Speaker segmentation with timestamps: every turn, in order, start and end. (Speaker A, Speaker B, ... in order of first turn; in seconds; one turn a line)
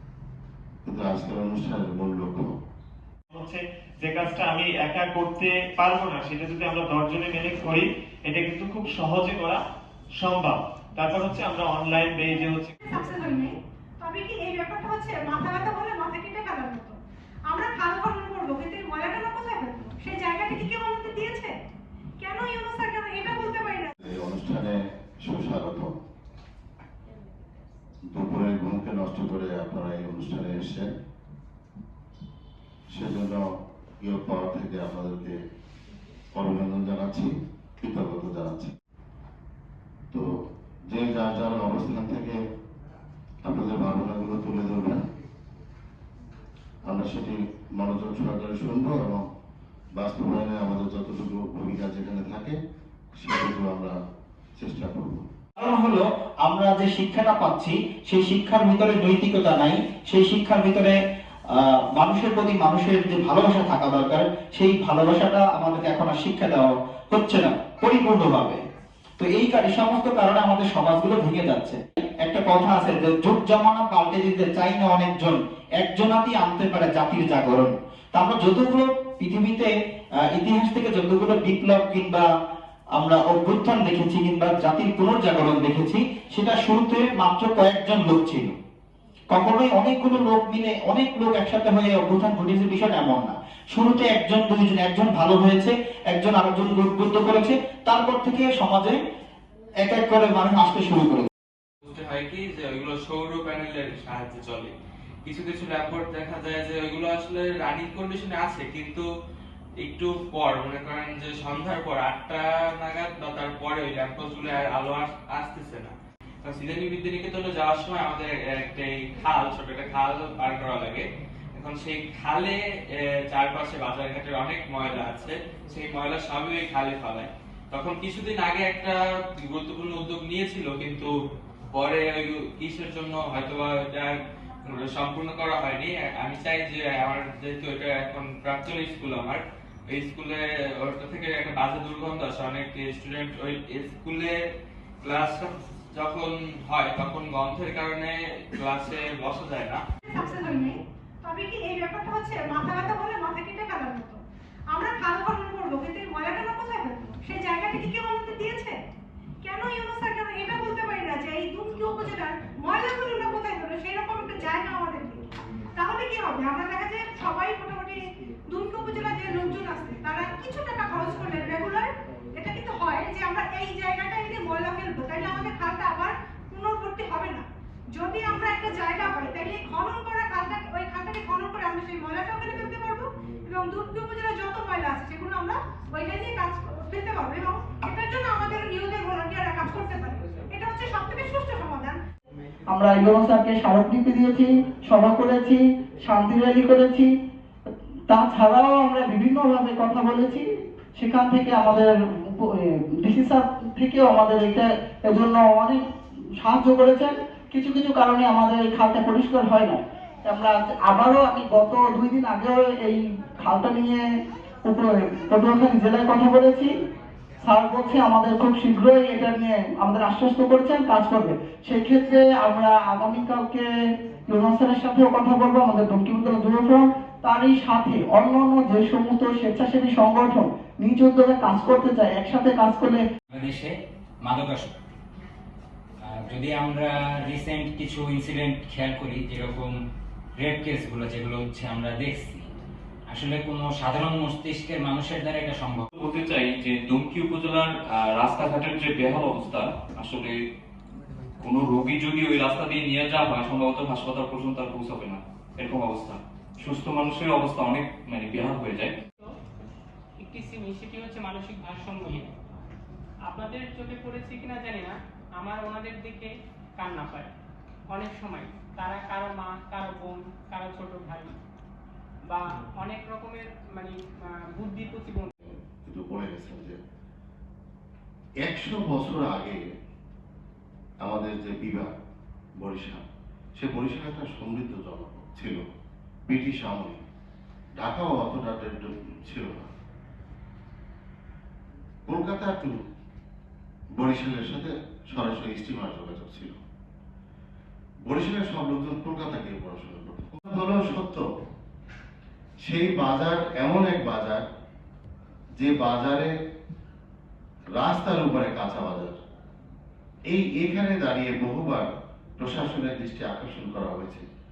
Speaker A: 0.8-2.5
Speaker B: 3.3-9.6
Speaker B: 10.2-12.7
Speaker C: 12.8-17.0
Speaker C: 17.5-21.5
Speaker C: 22.2-23.9
Speaker A: 24.0-25.9
Speaker A: 28.1-30.9
Speaker A: 32.9-33.4
Speaker A: 34.0-35.4
Speaker A: 36.3-38.7
Speaker A: 40.9-42.4
Speaker A: 43.4-45.0
Speaker A: 46.9-49.2
Speaker A: 50.0-52.5
Speaker A: 53.2-53.9
Speaker A: 54.6-55.3
Speaker D: 55.6-60.9
Speaker D: 61.5-68.6
Speaker D: 69.2-79.7
Speaker D: 80.3-82.3
Speaker D: 83.0-88.5
Speaker D: 89.3-99.0
Speaker D: 99.8-101.3
Speaker E: 101.8-104.7
Speaker E: 105.2-109.0
Speaker E: 109.8-131.1
Speaker E: 131.7-134.1
Speaker E: 134.7-144.3
Speaker E: 145.0-149.8
Speaker C: 150.1-154.2
Speaker C: 154.7-158.7
Speaker C: 159.4-165.2
Speaker C: 165.8-177.4
Speaker C: 177.9-192.0
Speaker F: 192.7-197.1
Speaker F: 198.1-205.8
Speaker F: 206.4-214.0
Speaker F: 214.7-216.7
Speaker F: 217.4-223.7
Speaker F: 224.3-233.0
Speaker G: 233.3-233.7
Speaker G: 234.2-234.7
Speaker G: 236.1-239.7
Speaker G: 240.4-242.5
Speaker G: 243.1-245.8
Speaker H: 246.0-250.3
Speaker H: 251.4-258.9
Speaker I: 260.2-262.3
Speaker I: 263.3-267.3
Speaker I: 267.9-271.3
Speaker I: 272.3-275.3
Speaker A: 275.4-276.8
Speaker A: 278.4-279.6
Speaker A: 281.0-281.9
Speaker A: 282.6-283.0
Speaker A: 283.6-285.6
Speaker A: 286.3-287.0
Speaker A: 287.8-289.7
Speaker A: 292.1-292.8
Speaker A: 294.0-296.6
Speaker A: 298.1-301.2
Speaker A: 302.6-304.4
Speaker A: 305.6-306.3
Speaker A: 307.8-309.2
Speaker A: 310.3-311.8
Speaker A: 312.4-314.2